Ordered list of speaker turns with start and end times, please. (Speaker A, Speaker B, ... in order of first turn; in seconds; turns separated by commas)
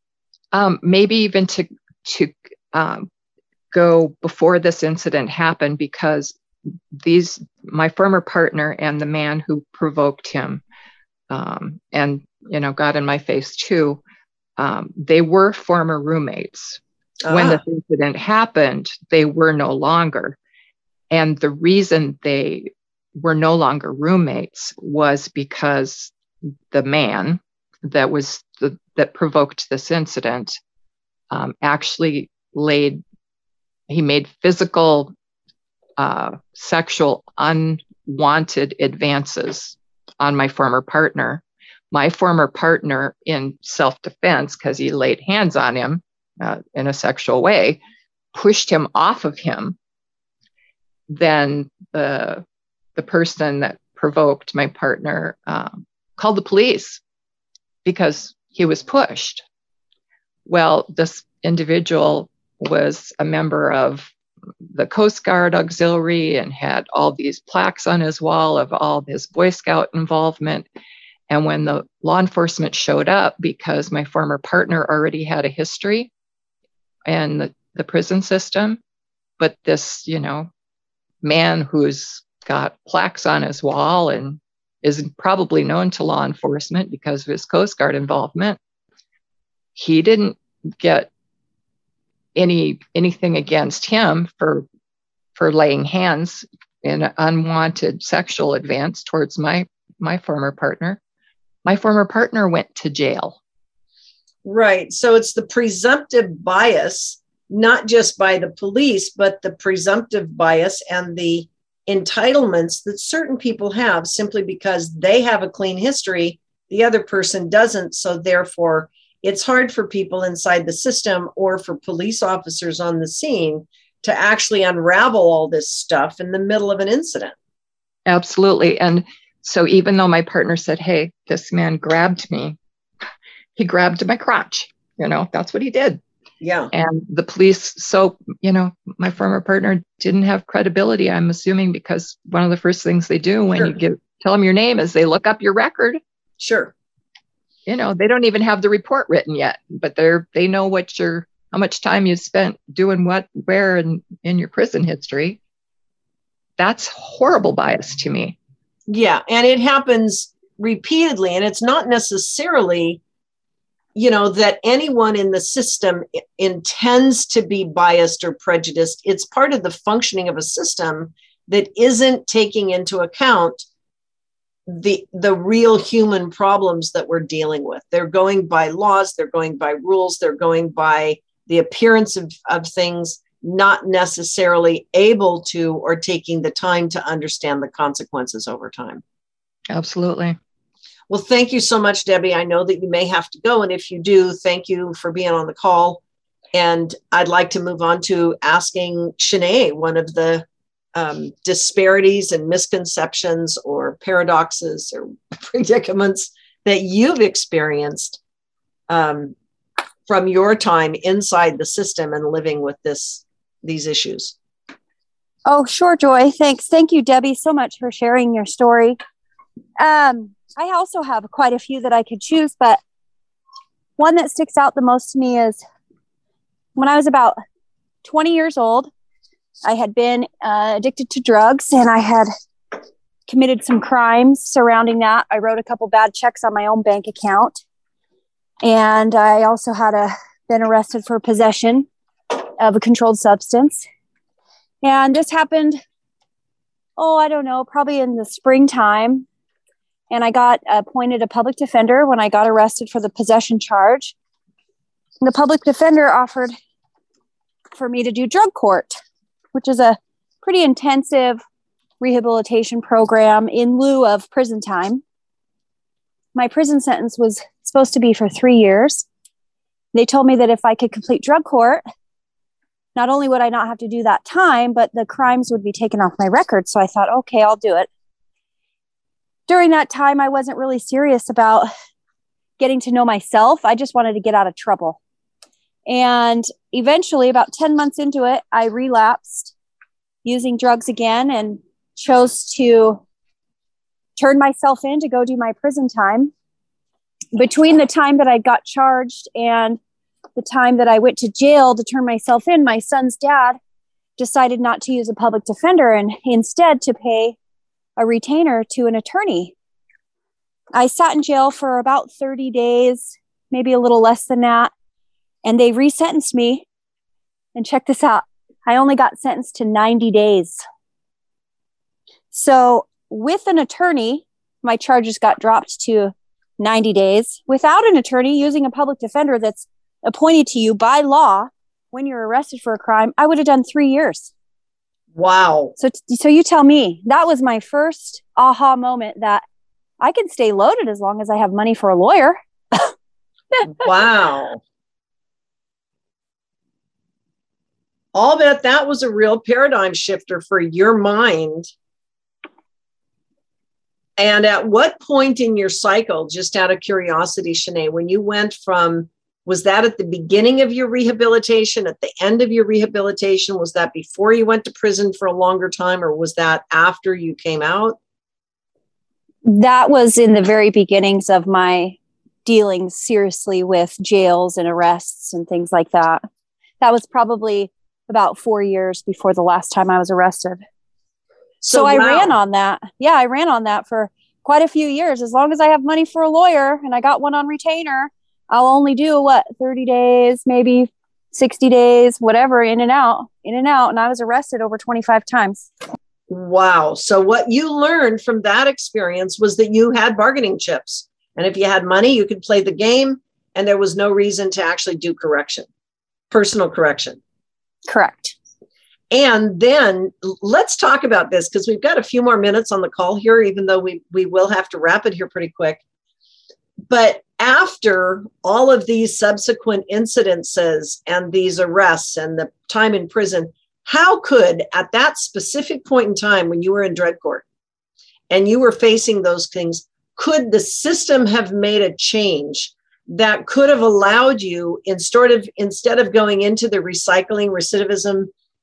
Speaker A: 0.5-3.1, Speaker A: 3.7-6.4, Speaker A: 6.9-10.6, Speaker A: 11.3-14.0, Speaker A: 14.6-20.4, Speaker B: 17.2-17.6, Speaker A: 21.1-26.1, Speaker A: 26.7-30.6, Speaker A: 31.3-33.0, Speaker A: 33.9-35.1, Speaker A: 36.0-47.8, Speaker A: 48.3-49.8, Speaker A: 51.1-52.4, Speaker A: 53.0-57.0, Speaker A: 57.8-59.4, Speaker A: 60.5-64.1, Speaker A: 64.7-70.6, Speaker A: 71.3-76.1, Speaker A: 77.0-78.8, Speaker A: 79.4-80.5, Speaker A: 81.2-88.6, Speaker A: 89.7-91.1, Speaker A: 92.3-94.6, Speaker A: 95.3-101.0, Speaker A: 101.6-103.4, Speaker B: 104.4-127.3, Speaker A: 128.1-132.6, Speaker A: 133.6-136.0, Speaker B: 136.4-136.7, Speaker A: 136.7-146.0, Speaker B: 146.4-146.7, Speaker A: 147.7-155.4, Speaker A: 156.6-158.4, Speaker B: 158.9-163.0, Speaker B: 163.9-173.6, Speaker B: 174.7-189.0, Speaker A: 189.7-190.4, Speaker B: 191.1-196.0, Speaker B: 196.5-208.2, Speaker B: 208.9-209.3, Speaker B: 210.1-214.3, Speaker C: 215.4-219.0, Speaker C: 219.8-222.8, Speaker C: 224.0-225.6, Speaker C: 226.8-227.4, Speaker C: 228.0-228.9, Speaker C: 229.6-232.3, Speaker C: 233.3-237.6, Speaker C: 238.6-243.8, Speaker C: 244.8-245.8, Speaker C: 247.0-249.2, Speaker C: 250.1-254.1, Speaker C: 255.2-256.5, Speaker C: 257.8-259.0, Speaker C: 259.5-261.4, Speaker C: 262.0-265.0, Speaker C: 266.3-269.1, Speaker C: 269.9-271.8, Speaker C: 272.9-277.9, Speaker C: 279.5-281.7, Speaker C: 282.6-285.0, Speaker C: 285.9-289.5, Speaker C: 290.2-293.0, Speaker C: 294.2-296.3, Speaker C: 297.3-299.8, Speaker C: 300.4-303.6, Speaker C: 304.2-307.4, Speaker C: 308.0-309.5, Speaker C: 310.8-314.7, Speaker C: 315.4-316.6, Speaker C: 317.5-320.6, Speaker C: 322.3-334.3, Speaker B: 335.1-335.7, Speaker C: 335.8-339.4, Speaker C: 340.0-342.9, Speaker B: 343.8-344.6, Speaker B: 348.1-351.7, Speaker B: 354.2-368.0, Speaker C: 369.4-376.2, Speaker C: 376.8-380.6, Speaker B: 381.6-382.3, Speaker C: 381.7-395.7, Speaker B: 396.3-405.7, Speaker B: 406.3-407.2, Speaker C: 407.9-408.3, Speaker B: 409.1-415.8, Speaker B: 416.9-427.4, Speaker B: 428.3-438.3